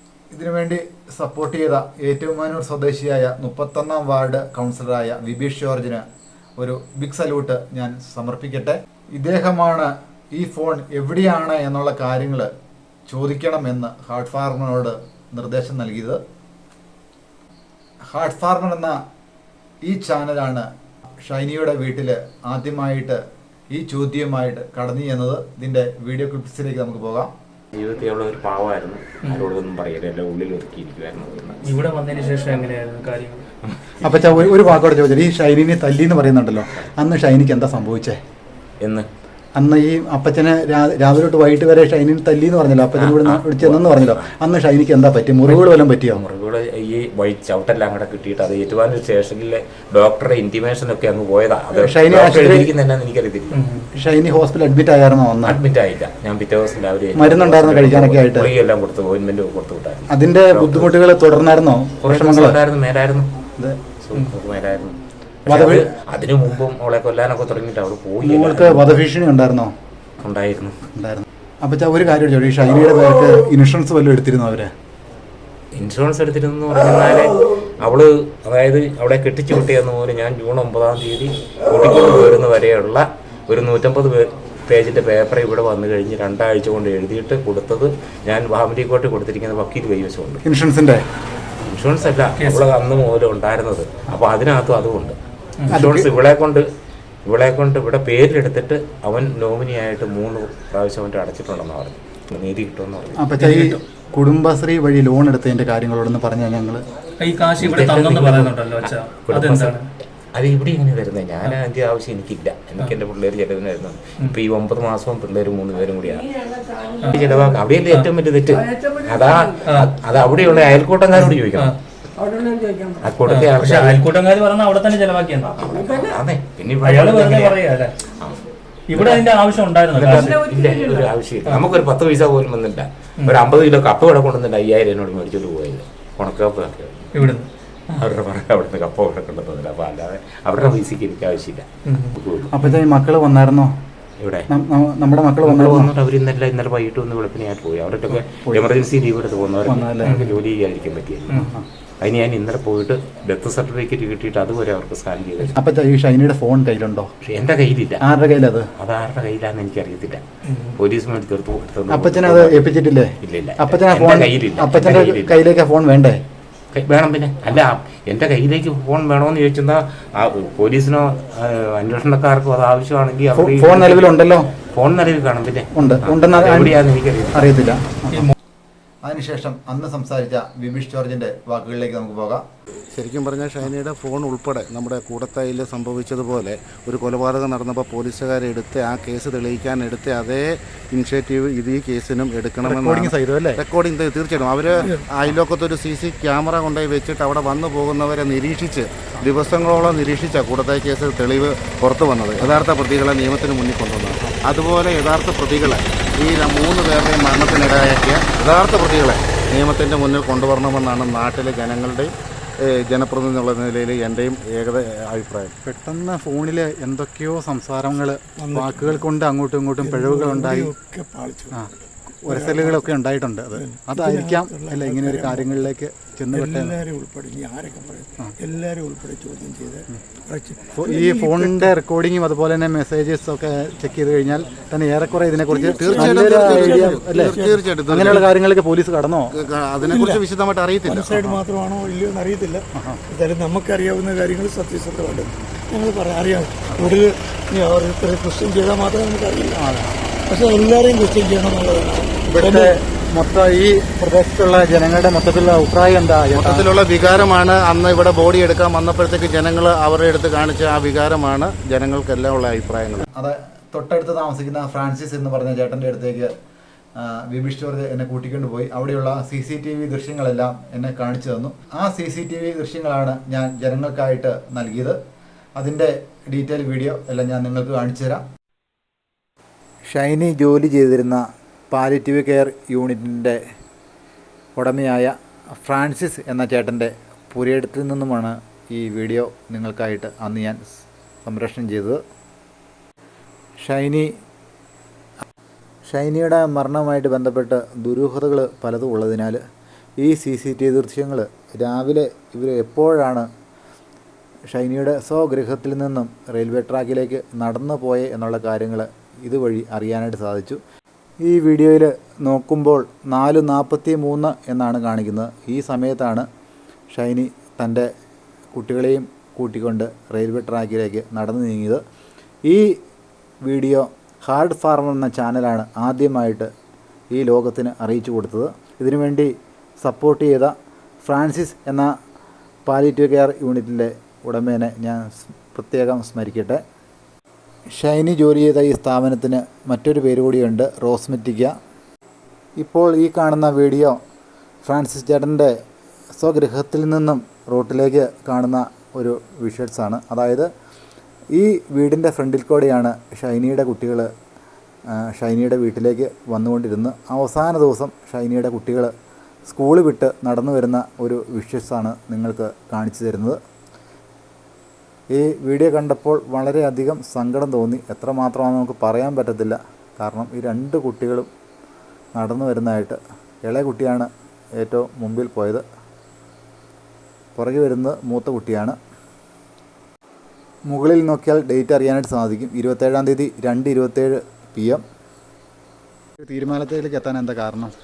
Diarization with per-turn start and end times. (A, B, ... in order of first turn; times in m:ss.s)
0:00.3-0:06.0 A
0:06.6-0:12.5 A
0:13.1-0:16.2 A
0:18.1-0:19.0 A
0:19.8-0:20.7 A
0:21.2-0:23.2 A
0:23.7-0:27.3 A
0:27.7-0:31.7 B
0:31.6-0:33.4 C
0:34.0-0:38.2 A
0:38.8-0:39.1 B
0:39.6-0:46.2 A
0:43.0-0:44.2 B
0:45.4-0:53.6 B
0:51.8-0:52.7 A
0:53.6-0:53.8 C
0:53.9-0:55.6 A
0:55.4-1:00.9 B
0:57.2-0:58.5 A
1:00.1-1:02.6 A
1:02.0-1:03.3 B
1:04.0-1:05.0 B
1:05.5-1:09.0 B
1:05.5-1:05.8 A
1:08.2-1:09.7 A
1:10.2-1:10.8 B
1:10.9-1:14.7 A
1:15.7-1:30.4 B
1:30.4-1:31.0 A
1:31.6-1:35.2 B
1:32.4-1:32.7 C
1:35.7-1:36.6 B
1:35.7-1:36.1 A
1:37.2-1:43.3 B
1:43.2-1:46.8 A
1:43.4-1:43.8 C
1:47.2-1:49.9 C
1:47.6-1:49.8 B
1:50.3-1:56.4 B
1:57.0-1:57.3 C
1:57.1-2:01.7 B
1:59.6-1:59.9 C
2:01.1-2:01.8 C
2:03.0-2:04.0 B
2:03.2-2:05.6 C
2:05.6-2:07.6 B
2:06.8-2:07.9 C
2:08.2-2:08.4 B
2:08.9-2:10.4 C
2:09.0-2:09.2 B
2:09.9-2:17.2 B
2:13.2-2:13.4 C
2:17.1-2:17.5 C
2:17.9-2:22.5 B
2:21.8-2:22.8 C
2:22.5-2:23.7 A
2:24.2-2:24.5 B
2:24.5-2:25.9 A
2:25.4-2:31.5 B
2:28.2-2:28.7 A
2:29.7-2:30.1 A
2:30.0-2:30.4 C
2:31.4-2:31.6 A
2:32.0-2:35.6 B
2:35.6-2:37.1 A
2:37.2-2:38.0 B
2:38.0-2:38.7 A
2:38.8-2:40.2 B
2:40.5-2:40.8 C
2:40.8-2:42.7 B
2:41.9-2:46.2 A
2:43.2-2:45.4 B
2:46.7-2:57.5 B
2:53.4-2:54.5 A
2:55.8-2:56.7 A
2:57.3-2:58.3 A
2:59.0-3:02.4 A
3:02.9-3:32.1 D
3:12.6-3:13.6 A
3:14.8-3:15.1 E
3:32.6-3:35.5 D
3:35.6-3:40.7 A
3:38.4-3:39.0 E
3:39.8-3:42.9 E
3:42.2-3:46.8 A
3:43.5-3:45.6 E
3:46.3-3:51.7 E
3:50.7-3:59.3 A
3:55.5-3:58.3 E
3:55.8-3:58.3 D
3:59.3-4:01.1 D
3:59.8-4:00.2 E
4:00.8-4:09.6 E
4:01.1-4:01.4 A
4:02.8-4:03.0 A
4:09.6-4:10.2 A
4:10.2-4:12.7 E
4:12.3-4:16.6 A
4:16.3-4:23.1 D
4:23.2-4:26.3 A
4:27.0-4:35.0 A
4:35.6-4:38.2 A
4:39.9-4:43.4 A
4:44.6-4:52.0 A
4:53.6-4:54.1 A
4:55.9-4:59.4 A
5:00.0-5:03.3 A
5:04.5-5:10.6 A
5:11.2-5:16.2 A
5:16.9-5:17.9 A
5:18.5-5:21.8 A
5:22.4-5:22.8 A
5:23.4-5:26.5 A
5:27.1-5:31.9 A
5:32.6-5:36.6 A
5:37.8-5:41.5 A
5:42.6-5:44.0 A
5:44.6-5:45.5 A
5:46.2-5:50.5 A
5:51.3-5:54.1 A
5:55.0-5:58.9 A
5:59.5-6:03.4 A
6:05.1-6:11.3 A
6:12.1-6:14.1 A
6:14.6-6:15.6 A
6:17.4-6:18.8 A
6:20.7-6:24.8 A
6:26.2-6:27.7 A